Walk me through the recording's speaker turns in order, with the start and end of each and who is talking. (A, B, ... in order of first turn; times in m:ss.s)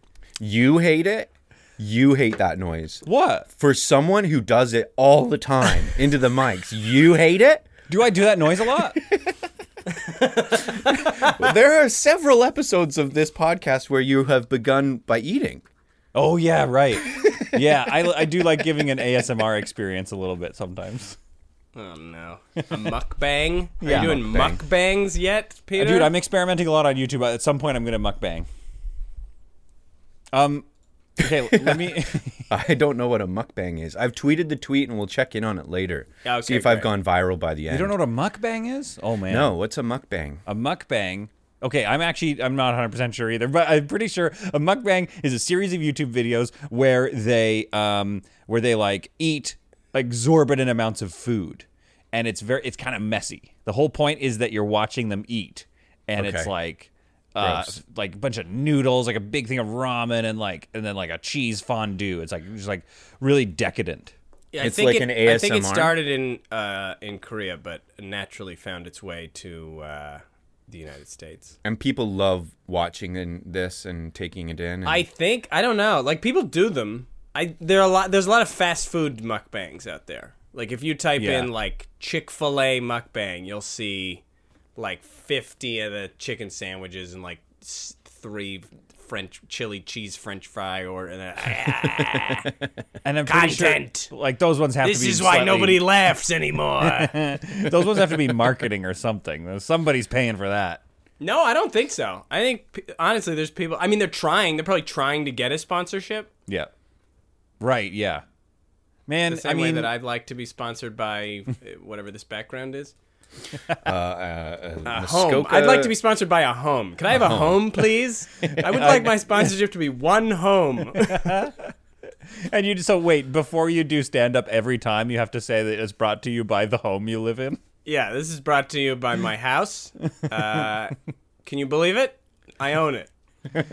0:00.4-0:07.7 A
0:03.0-0:03.5 B
0:07.9-0:09.0 B
0:10.1-0:10.6 C
0:10.7-0:15.6 A
0:16.1-0:21.2 B
0:21.7-0:26.1 C
0:23.8-0:24.2 B
0:23.8-0:24.6 A
0:25.8-0:28.5 B
0:30.3-0:30.6 B
0:31.2-0:32.5 B
0:31.5-0:31.9 A
0:32.5-0:38.0 A
0:36.2-0:36.9 C
0:37.7-0:39.5 B
0:39.3-0:40.4 A
0:40.4-1:04.1 B
0:56.2-0:56.5 A
0:57.4-0:57.8 A
1:04.5-1:11.5 C
1:04.6-1:06.0 A
1:11.6-1:15.0 A
1:14.8-1:24.2 C
1:21.2-1:21.5 B
1:24.8-1:32.5 C
1:33.0-1:35.9 B
1:33.3-1:34.1 C
1:34.8-1:37.2 C
1:36.8-1:40.8 B
1:41.2-1:46.3 C
1:47.6-1:48.2 B
1:49.1-1:49.9 B
1:49.3-1:52.9 C
1:53.8-1:56.0 A
1:54.8-2:01.5 C
1:57.1-1:57.8 A
1:58.6-1:59.5 B
2:01.1-2:01.7 B
2:02.4-2:07.6 B
2:07.8-2:13.1 C